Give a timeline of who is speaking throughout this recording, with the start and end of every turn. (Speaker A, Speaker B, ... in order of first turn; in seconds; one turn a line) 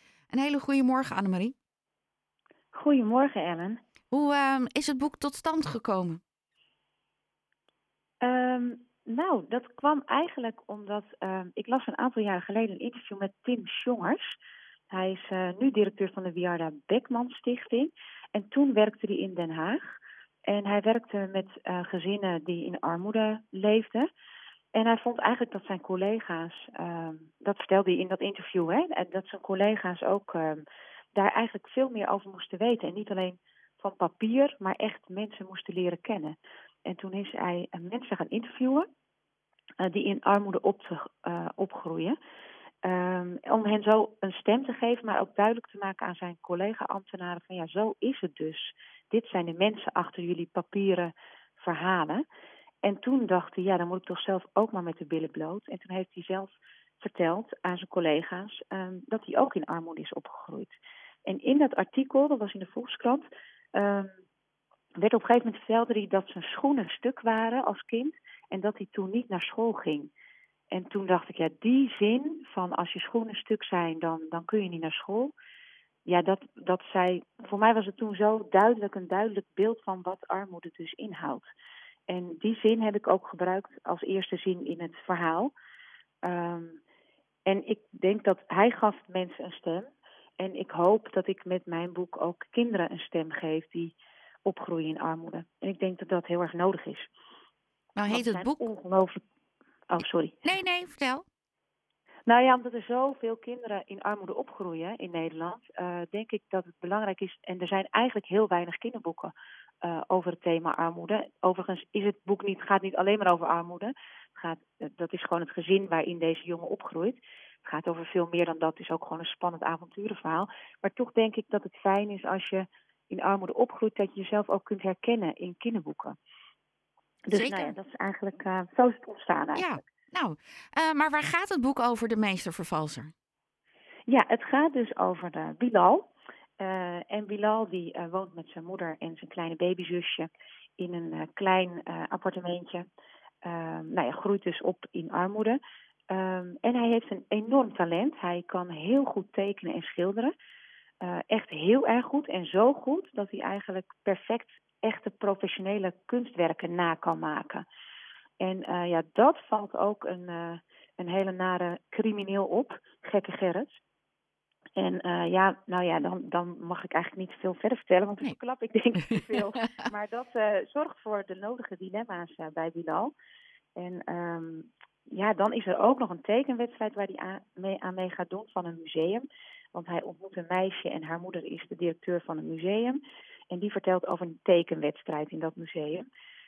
Speaker A: 0.3-1.5
Speaker B: 2.7-3.8
Speaker A: 4.1-6.2
Speaker B: 8.2-14.4
Speaker B: 14.9-19.9
Speaker B: 20.5-24.1
Speaker B: 24.7-30.6
Speaker B: 31.1-36.4
Speaker B: 36.9-38.9
Speaker B: 39.8-42.1
Speaker B: 42.8-52.2
Speaker B: 52.8-60.7
Speaker B: 61.2-64.1
Speaker B: 65.0-70.1
Speaker B: 70.7-75.3
Speaker B: 76.0-81.5
Speaker B: 82.1-85.5
Speaker B: 86.2-86.8
Speaker B: 87.5-97.1
Speaker A: 98.0-98.6
Speaker B: 98.1-99.2
Speaker B: 99.9-100.4
Speaker A: 100.4-101.2
Speaker B: 102.3-126.2
Speaker B: 127.3-129.8
Speaker A: 127.3-127.8
Speaker A: 129.5-133.1
Speaker B: 134.1-136.1
Speaker B: 136.6-142.8
Speaker B: 143.4-145.6
Speaker B: 146.1-150.3
Speaker B: 151.0-157.6
Speaker B: 158.4-163.8
Speaker B: 164.8-173.1
Speaker A: 169.0-169.6
Speaker B: 173.8-183.0
Speaker B: 183.5-186.1